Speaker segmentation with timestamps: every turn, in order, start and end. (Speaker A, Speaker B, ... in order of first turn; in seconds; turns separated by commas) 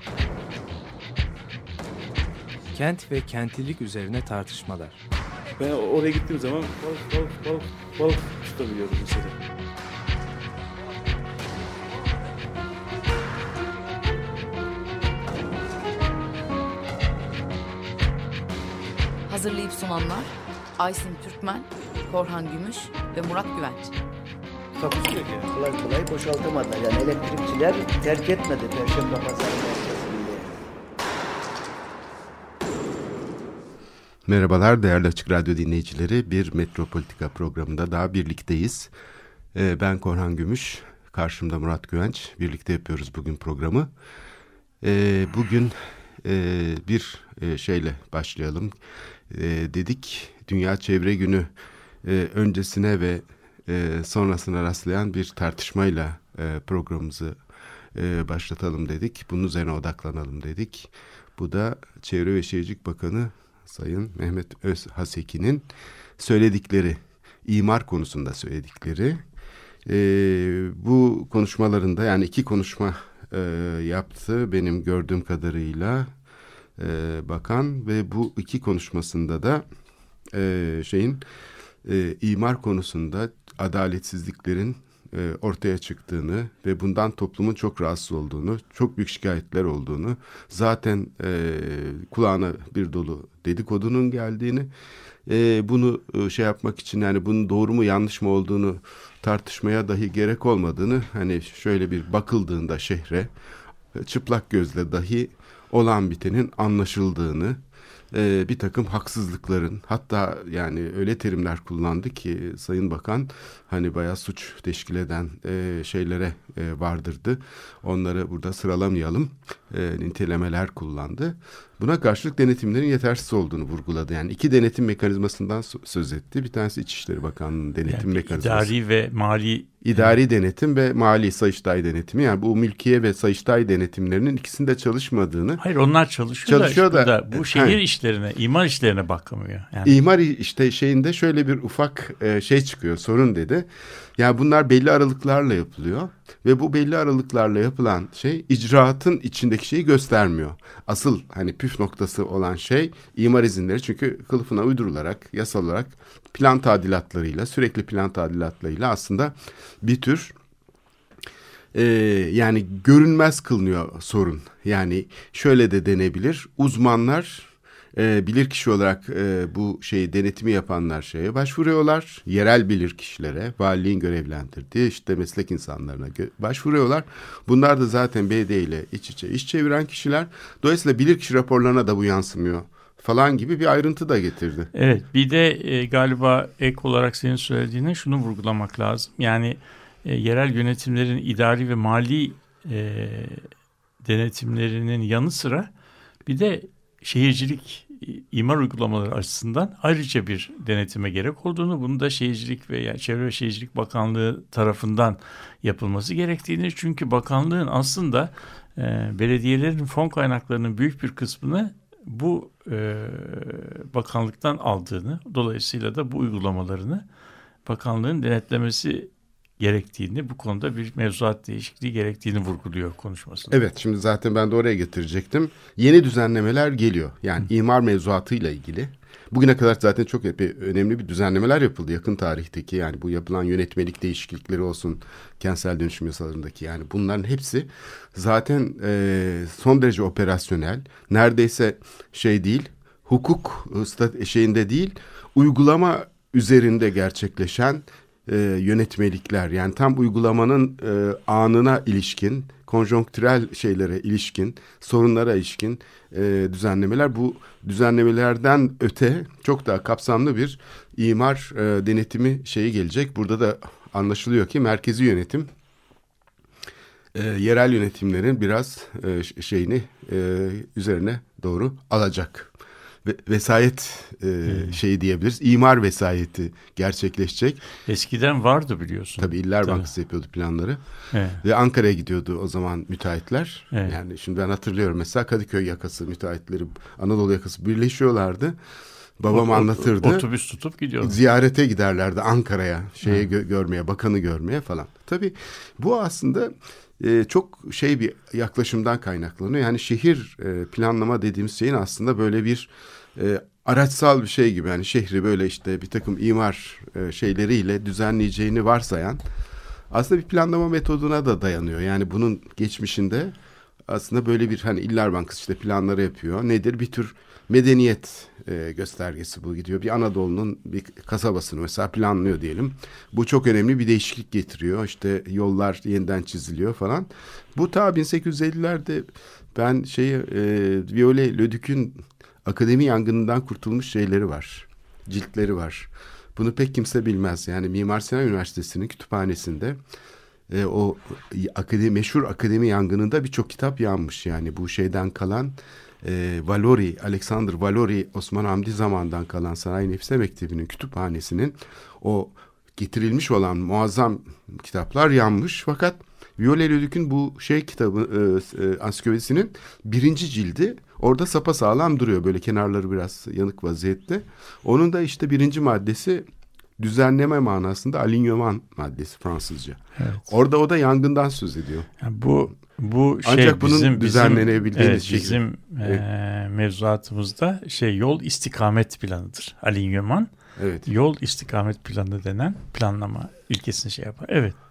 Speaker A: 2.7-5.0, Speaker B: 5.6-9.3, Speaker C: 19.3-23.9, Speaker B: 24.8-25.5, Speaker D: 25.5-30.6, Speaker E: 34.2-38.9, Speaker E: 39.5-43.9, Speaker E: 44.8-48.8, Speaker E: 49.3-51.5, Speaker E: 52.0-57.4, Speaker E: 57.9-69.2, Speaker E: 69.8-76.1, Speaker E: 76.8-79.6, Speaker E: 80.3-81.2, Speaker E: 81.8-94.7, Speaker E: 95.2-103.3, Speaker E: 103.9-107.6, Speaker E: 108.1-128.7, Speaker F: 127.9-130.1, Speaker E: 129.8-135.6, Speaker F: 135.6-140.0, Speaker E: 136.4-137.8, Speaker E: 139.8-160.3, Speaker E: 161.7-184.7, Speaker F: 184.7-193.5, Speaker F: 194.0-195.7, Speaker F: 196.2-217.0, Speaker F: 217.7-223.5, Speaker E: 223.5-265.5, Speaker E: 267.1-272.5, Speaker E: 273.0-277.6, Speaker F: 274.5-274.8, Speaker F: 277.9-279.9, Speaker E: 279.2-280.8, Speaker F: 281.1-281.4, Speaker E: 281.4-288.6, Speaker F: 283.7-284.0, Speaker E: 289.2-290.3, Speaker F: 289.3-291.2, Speaker E: 291.0-309.2, Speaker E: 309.9-313.3, Speaker E: 313.9-339.8, Speaker E: 340.5-371.9, Speaker F: 370.0-370.3, Speaker F: 372.0-380.3, Speaker E: 373.2-376.0, Speaker E: 380.6-380.9, Speaker F: 380.9-384.5